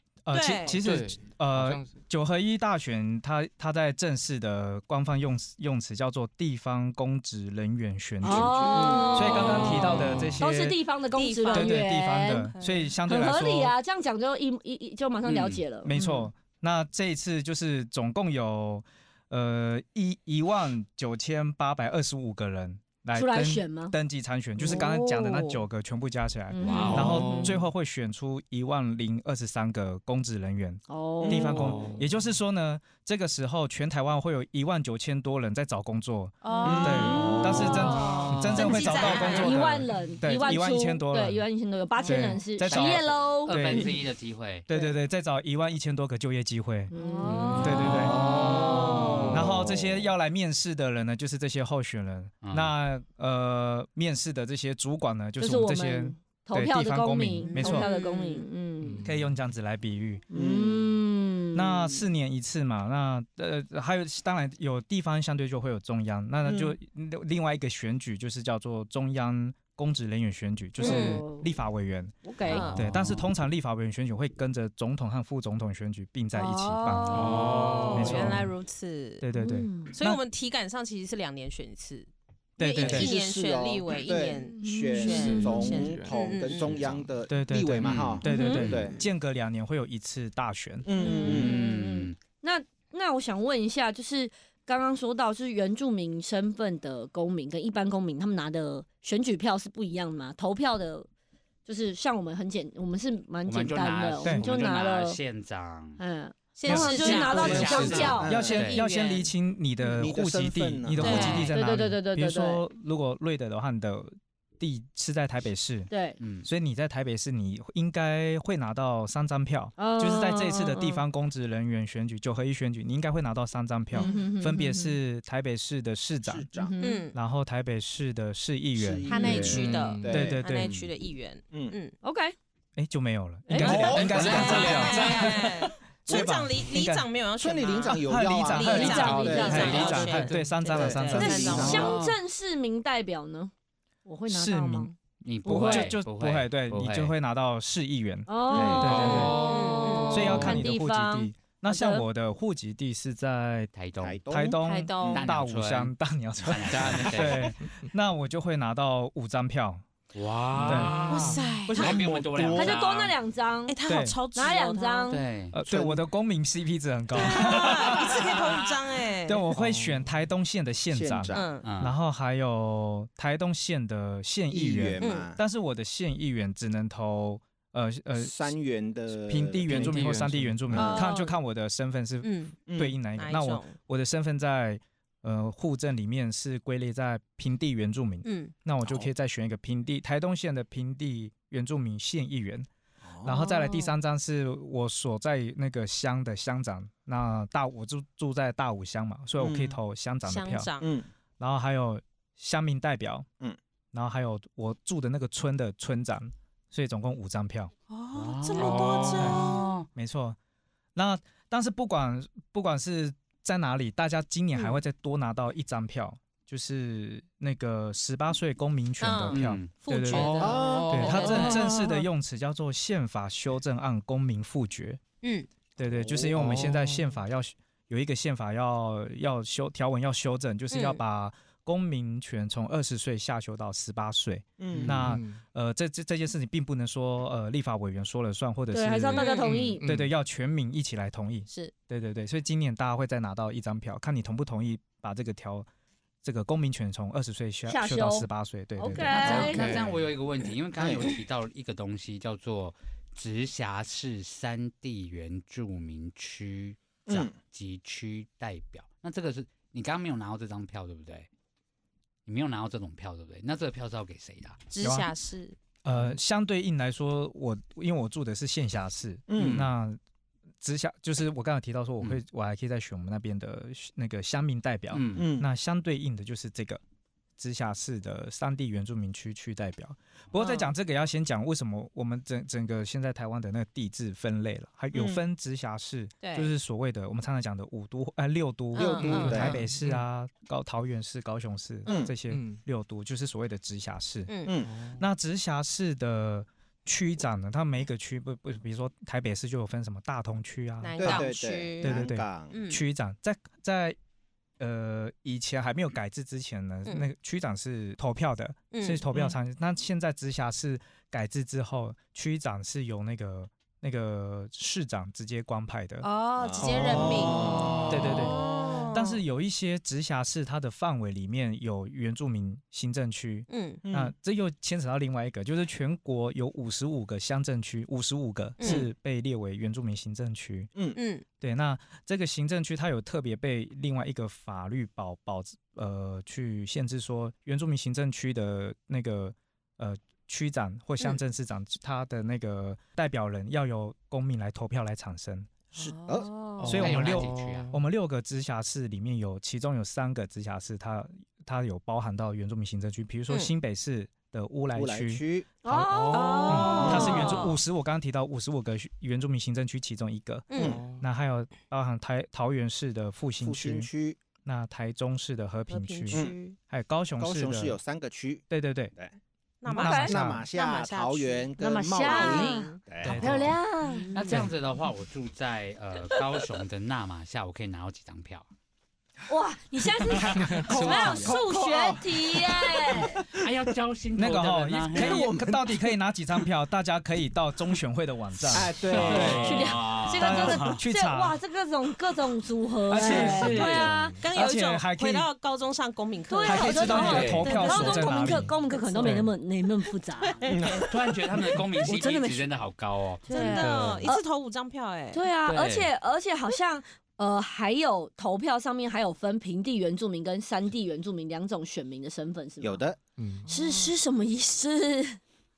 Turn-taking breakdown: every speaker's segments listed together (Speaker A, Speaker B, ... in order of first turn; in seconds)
Speaker A: 0.2-10.8, 11.5-13.7, 15.8-41.4, 42.0-44.0, 44.7-46.9, 47.6-48.2, 49.3-57.9, 59.0-60.2, 61.5-72.1, 72.7-78.5, 79.2-80.2, 82.6-83.1, 87.3-90.9, 106.7-115.9, 116.4-126.5, 127.1-129.1, 130.1-130.8, 132.8-137.1, 137.9-141.8, 144.3-144.9, 145.4-149.5, 150.1-153.7, 154.3-159.8, 160.6-161.1, 163.9-164.2, 165.5-168.4, 169.2-178.5, 179.1-192.7, 193.2-200.7, 201.4-203.3, 203.9-207.7, 208.6-210.4, 210.9-225.0, 225.8-245.7, 246.2-249.5, 264.8-265.1, 265.8-270.0, 270.6-276.8, 277.4-294.3, 294.9-301.3, 301.8-303.9, 304.6-316.1, 317.9-330.7, 331.4-345.5, 346.6-363.9, 364.4-367.8, 368.5-368.9, 369.7-370.4, 373.0-373.6, 384.1-391.4, 392.9-395.3, 396.4-398.5, 399.0-399.3
Speaker B: 0.3-0.8, 8.3-10.2, 11.1-13.0, 15.9-16.3, 24.6-25.6, 26.7-27.6, 36.4-39.6, 42.0-42.4, 46.9-49.4, 57.4-58.5, 70.8-71.2, 72.4-72.9, 76.3-79.2, 79.9-86.8, 88.2-88.9, 91.0-91.5, 106.5-109.3, 111.0-111.5, 126.8-127.2, 129.1-131.9, 133.6-142.0, 148.6-150.5, 154.6-155.3, 161.1-162.0, 163.7-165.2, 167.1-169.6, 171.3-171.7, 175.0-175.3, 180.7-181.4, 182.2-182.6, 183.1-183.8, 188.2-188.5, 200.2-200.9, 207.9-209.8, 214.5-214.8, 219.0-222.0, 225.2-225.5, 230.7-231.0, 239.1-239.6, 241.5-241.7, 249.0-249.4, 264.7-265.6, 280.4-280.7, 286.2-286.5, 288.7-289.6, 294.3-294.6, 300.8-302.8, 308.7-309.2, 316.0-319.2, 323.5-323.8, 328.6-328.9, 330.9-331.2, 345.8-346.8, 356.1-357.6, 360.5-360.8, 365.7-366.6, 369.6-372.8, 373.8-374.4, 393.0-399.3, 400.2-400.9, 403.3-405.2, 413.4-413.9
Speaker C: 0.8-1.9, 9.8-10.4, 26.8-27.6, 31.3-32.1, 37.6-38.8, 48.0-49.7, 58.8-59.3, 72.7-73.1, 77.1-78.4, 85.1-87.2, 129.3-130.3, 133.6-135.2, 139.1-139.4, 140.0-140.3, 148.8-150.6, 156.7-157.9, 160.5-161.0, 169.5-170.1, 179.7-181.0, 220.1-221.7, 226.2-227.1, 234.7-235.4, 239.6-240.1, 249.2-250.1, 289.2-290.0, 292.3-292.6, 294.7-295.0, 316.8-318.3, 346.6-347.8, 355.8-356.8, 360.6-361.0, 380.3-381.2, 393.6-394.2, 403.6-404.0, 413.2-413.5
Speaker D: 8.2-12.5, 13.1-16.0, 23.1-23.9, 26.5-27.1, 30.9-31.7, 36.5-37.8, 38.5-43.8, 46.9-49.2, 55.4-59.0, 60.3-62.0, 70.8-71.5, 72.2-72.7, 79.3-79.9, 84.4-85.7, 88.3-88.7, 91.0-101.1, 101.7-105.2, 106.0-108.4, 111.5-112.6, 115.9-116.2, 119.8-120.9, 124.0-125.0, 126.6-127.1, 132.0-132.3, 138.6-140.1, 141.1-143.5, 144.0-144.9, 145.4-145.9, 148.3-152.0, 162.5-163.8, 164.3-165.2, 238.7-239.8, 247.7-249.7, 355.6-357.4, 369.7-370.1, 371.6-374.4, 379.3-383.2, 389.1-394.2, 396.3-400.4, 401.8-402.4, 403.3-404.2, 405.1-412.8, 413.5-415.2
Speaker E: 8.7-9.1, 31.2-31.9, 36.6-37.8, 49.6-49.8, 60.3-61.0, 66.4-66.7, 82.8-89.0, 90.8-91.5, 107.4-108.6, 110.0-111.5, 126.2-126.8, 128.8-130.4, 131.5-131.8, 133.6-134.8, 137.4-142.0, 148.5-149.1, 154.0-155.3, 161.7-162.8, 165.7-166.0, 170.9-171.5, 174.5-175.4, 178.2-180.1, 182.7-183.0, 188.8-189.1, 193.0-193.4, 199.4-199.8, 200.8-201.1, 220.4-221.4, 226.1-226.7, 234.6-235.1, 250.8-251.1, 257.1-257.3, 269.3-269.7, 275.1-275.5, 284.9-285.2, 288.8-289.6, 291.9-292.1, 294.4-294.7, 301.0-302.6, 316.4-318.1, 323.8-324.1, 328.6-328.9, 345.7-346.3, 354.7-355.5, 356.8-357.4, 363.4-364.2, 367.2-369.1, 369.9-373.4, 380.1-383.5, 384.9-385.9, 388.4-389.7, 400.5-400.9, 412.6-413.0
Speaker F: 15.2-15.6, 26.6-27.2, 42.6-44.7, 52.4-52.7, 87.8-88.1, 91.2-92.2, 103.5-106.0, 106.7-108.8, 111.1-111.5, 116.2-116.5, 134.2-134.6, 141.5-142.2, 145.2-147.1, 153.7-154.2, 155.1-157.5, 160.1-163.1, 165.1-165.6, 171.6-171.9, 208.1-209.8, 219.3-219.7, 249.1-261.3, 262.2-264.6, 269.3-269.7, 274.9-275.3, 346.7-347.7, 374.1-378.5, 383.4-385.3, 388.9-390.8, 393.1-393.9, 397.0-397.5, 400.9-404.0, 405.4-405.9